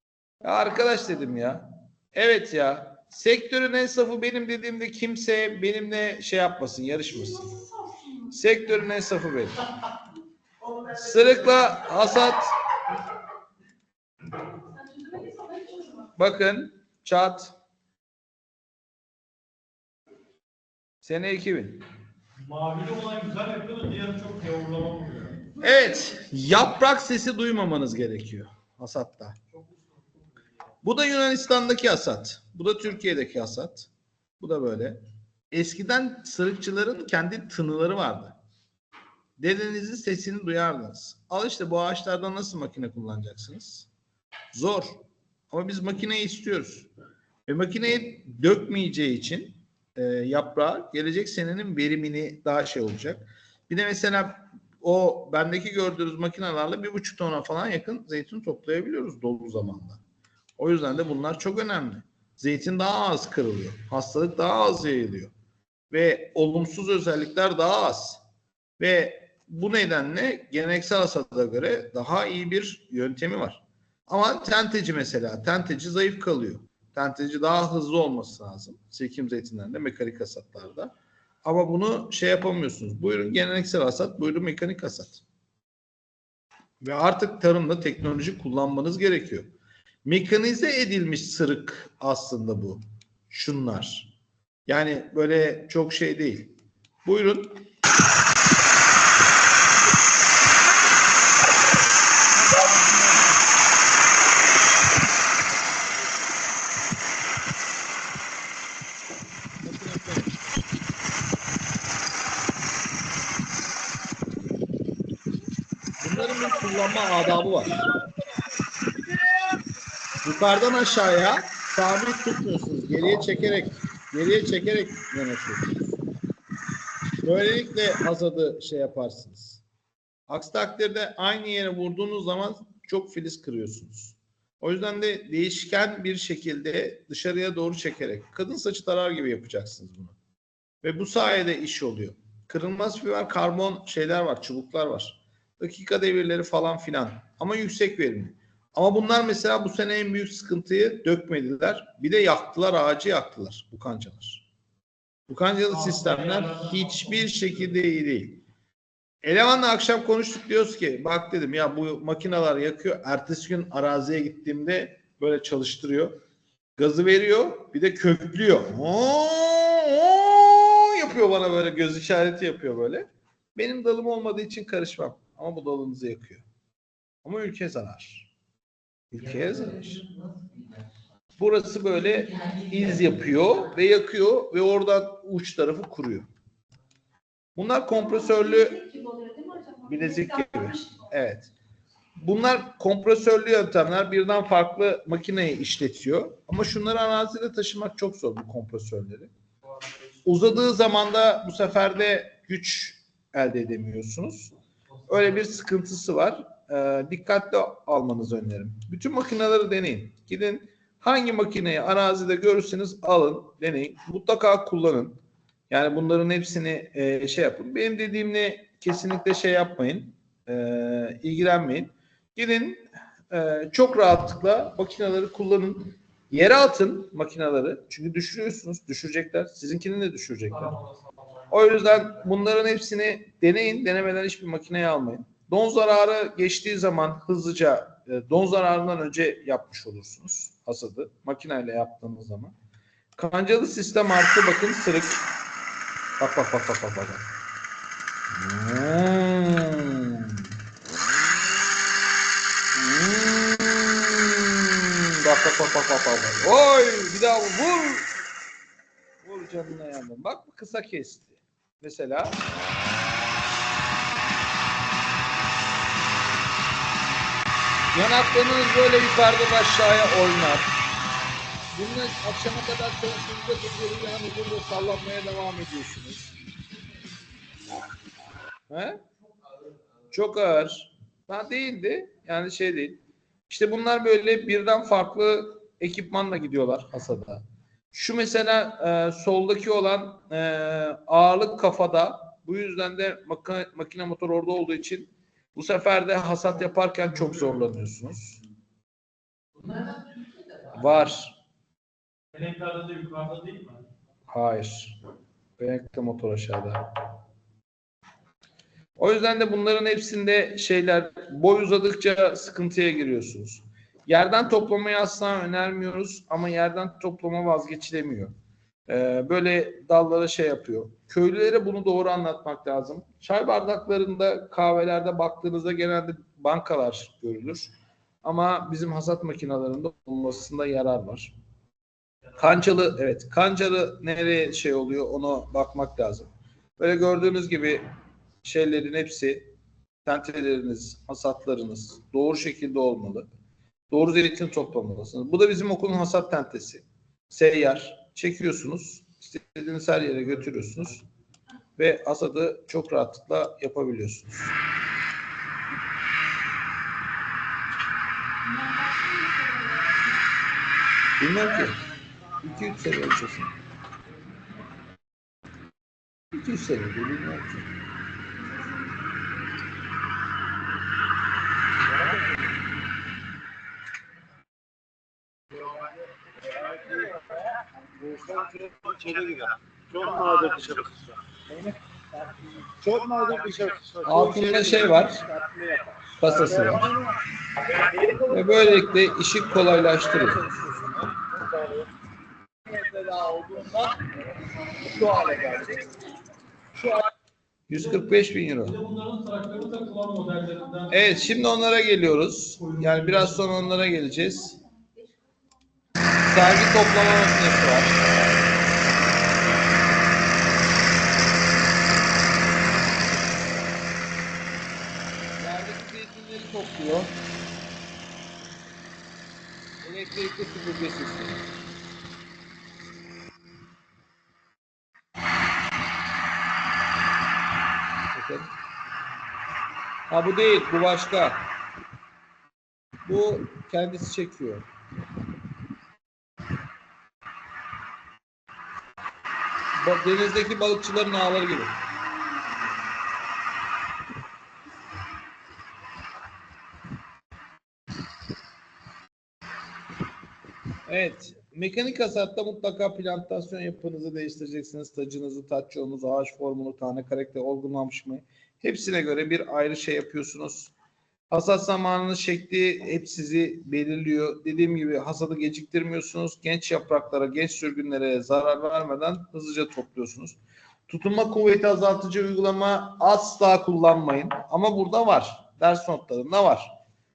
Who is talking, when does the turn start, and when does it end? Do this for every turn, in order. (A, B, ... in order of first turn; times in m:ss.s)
0:00.4-0:07.6 A
0:08.2-0:09.6 A
0:10.9-0:12.5 A
0:15.9-0:17.5 A
0:21.0-0:21.8 A
0:22.4-0:25.4 B
0:25.5-0:29.4 A
0:30.8-0:35.0 A
0:35.5-0:38.4 A
0:39.4-0:43.9 A
0:44.5-0:46.9 A
0:47.5-1:00.0 A
1:00.6-1:05.3 A
1:05.9-1:08.2 A
1:08.8-1:20.9 A
1:21.4-1:25.2 A
1:26.8-1:29.5 A
1:30.0-1:34.1 A
1:34.7-1:37.6 A
1:42.4-1:43.3 A
1:49.6-1:50.6 A
1:56.0-1:57.8 A
2:00.2-2:06.0 A
2:07.2-2:09.6 A
2:10.3-2:20.2 A
2:20.8-2:34.4 A
2:35.3-2:38.4 A
2:36.1-2:36.6 B
2:39.2-2:46.2 A
2:46.8-2:56.4 A
2:57.2-2:58.3 A
2:59.1-3:00.1 A
3:01.4-3:06.3 A
3:07.6-3:09.1 A
3:09.7-3:11.5 A
3:12.2-3:19.3 A
3:20.2-3:24.5 A
3:25.1-3:35.2 A
3:35.7-3:50.8 A
3:51.5-4:02.5 A
4:03.1-4:05.2 A
4:06.2-4:07.2 A
4:08.3-4:10.4 A
4:12.7-4:18.1 A
4:19.2-4:22.4 A
4:27.9-4:30.7 A
4:31.7-4:36.3 A
4:38.7-4:39.0 A
4:40.1-4:58.4 A
5:00.7-5:01.4 A
5:02.3-5:03.8 B
5:04.3-5:05.0 A
5:05.6-5:06.8 A
5:09.0-5:18.3 A
5:18.9-5:27.7 A
5:28.2-5:31.3 A
5:32.4-5:37.8 A
5:38.4-5:39.5 A
5:40.0-5:43.3 A
5:43.9-5:51.0 A
5:51.8-5:54.6 A
6:01.2-6:01.8 A
6:02.4-6:03.5 A
6:06.3-6:07.7 A
6:18.0-6:19.4 C
6:19.9-6:20.9 C
6:22.8-6:25.7 C
6:24.0-6:25.2 A
6:26.2-6:26.9 A
6:26.4-6:26.9 C
6:28.3-6:30.5 A
6:32.7-6:33.9 C
6:34.9-6:35.7 C
6:37.7-6:38.8 A
6:38.8-6:40.9 B
6:40.9-6:44.6 A
6:42.9-6:43.2 B
6:46.2-6:48.0 A
6:55.4-6:57.1 A
6:59.8-7:01.4 A
7:08.1-7:08.5 A
7:10.1-7:11.5 A
7:13.0-7:14.7 A
7:19.8-7:21.8 A
7:30.9-7:40.7 A
7:41.3-7:56.7 A